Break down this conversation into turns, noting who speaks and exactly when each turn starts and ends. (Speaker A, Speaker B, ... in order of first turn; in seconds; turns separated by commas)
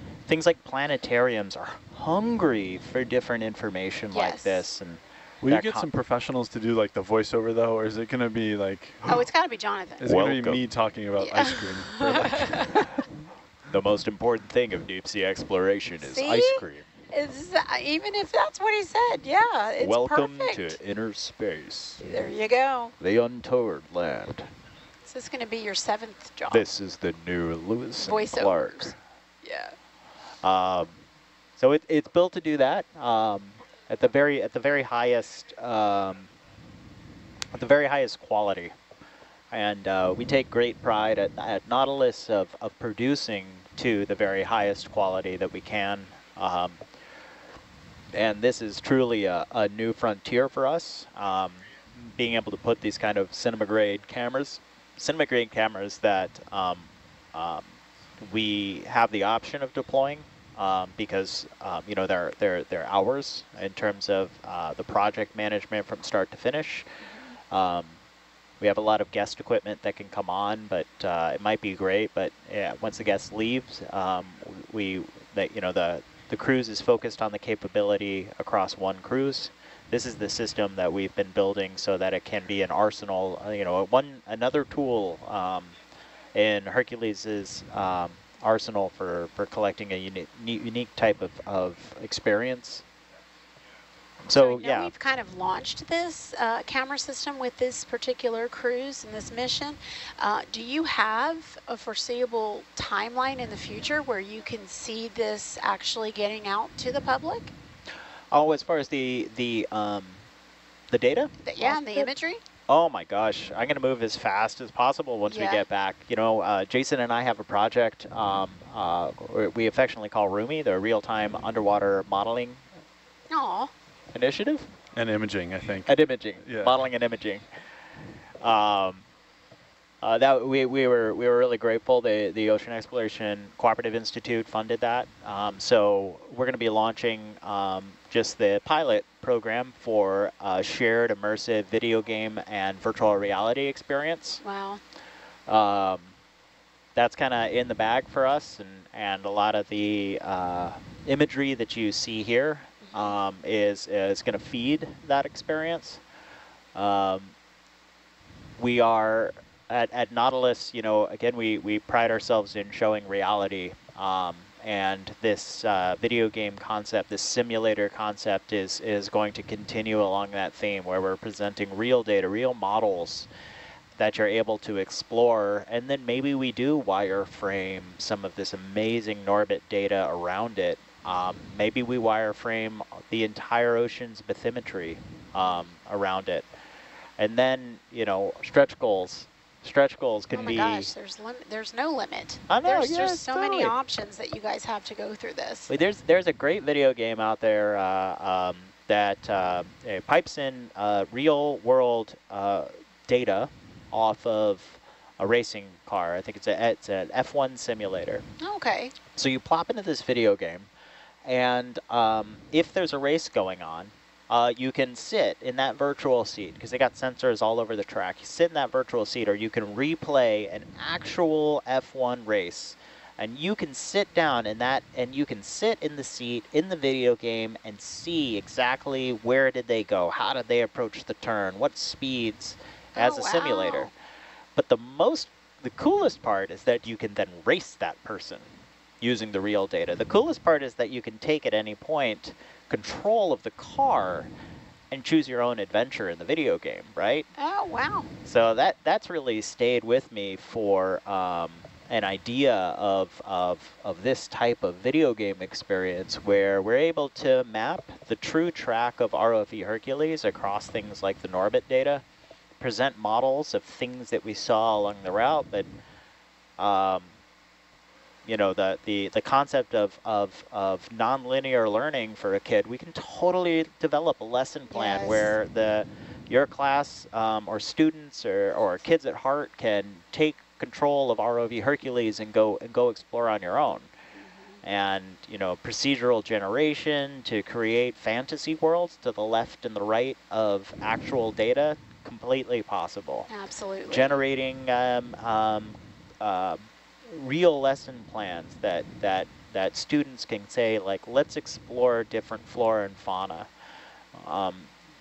Speaker A: 0.2-5.9, Speaker B: 4.1-4.7, Speaker C: 5.4-9.2, Speaker B: 9.0-10.1, Speaker C: 10.0-12.9, Speaker A: 10.1-10.7, Speaker B: 11.2-12.8, Speaker A: 13.7-16.9, Speaker B: 16.1-20.8, Speaker A: 19.8-22.3, Speaker B: 22.0-22.9, Speaker A: 23.0-24.5, Speaker B: 25.1-26.6, Speaker A: 26.5-28.9, Speaker B: 28.0-29.7, Speaker A: 30.4-31.0, Speaker A: 31.6-36.3, Speaker A: 37.5-38.8, Speaker A: 39.5-46.8, Speaker A: 48.1-66.9, Speaker B: 67.0-67.2, Speaker A: 67.5-68.0, Speaker A: 68.6-85.8, Speaker A: 86.3-92.8, Speaker A: 94.2-94.9, Speaker B: 94.3-107.5, Speaker A: 108.3-110.2, Speaker A: 110.9-112.1, Speaker B: 111.4-112.4, Speaker A: 112.7-122.6, Speaker B: 115.2-115.6, Speaker B: 123.3-123.7, Speaker A: 124.1-124.7, Speaker C: 124.9-126.9, Speaker A: 125.8-127.5, Speaker A: 128.4-129.0, Speaker A: 130.0-144.4, Speaker B: 144.4-144.8, Speaker A: 145.5-146.2, Speaker A: 146.9-156.0, Speaker B: 152.8-153.2, Speaker A: 156.7-157.3, Speaker A: 158.6-173.3, Speaker A: 174.0-186.5, Speaker B: 185.4-185.7, Speaker A: 187.2-190.9, Speaker B: 190.3-195.7, Speaker A: 192.5-193.8, Speaker A: 195.7-208.2, Speaker B: 208.4-208.9, Speaker A: 209.1-210.7, Speaker A: 211.2-233.9, Speaker B: 232.9-233.9, Speaker A: 234.5-244.3, Speaker A: 244.9-247.3, Speaker B: 247.3-248.1, Speaker A: 248.2-262.0, Speaker A: 262.6-265.7, Speaker A: 266.6-267.2, Speaker A: 268.2-283.9, Speaker B: 274.7-275.3, Speaker B: 284.1-284.6, Speaker A: 284.6-293.3, Speaker B: 293.3-294.2, Speaker A: 293.9-303.5, Speaker A: 304.1-304.7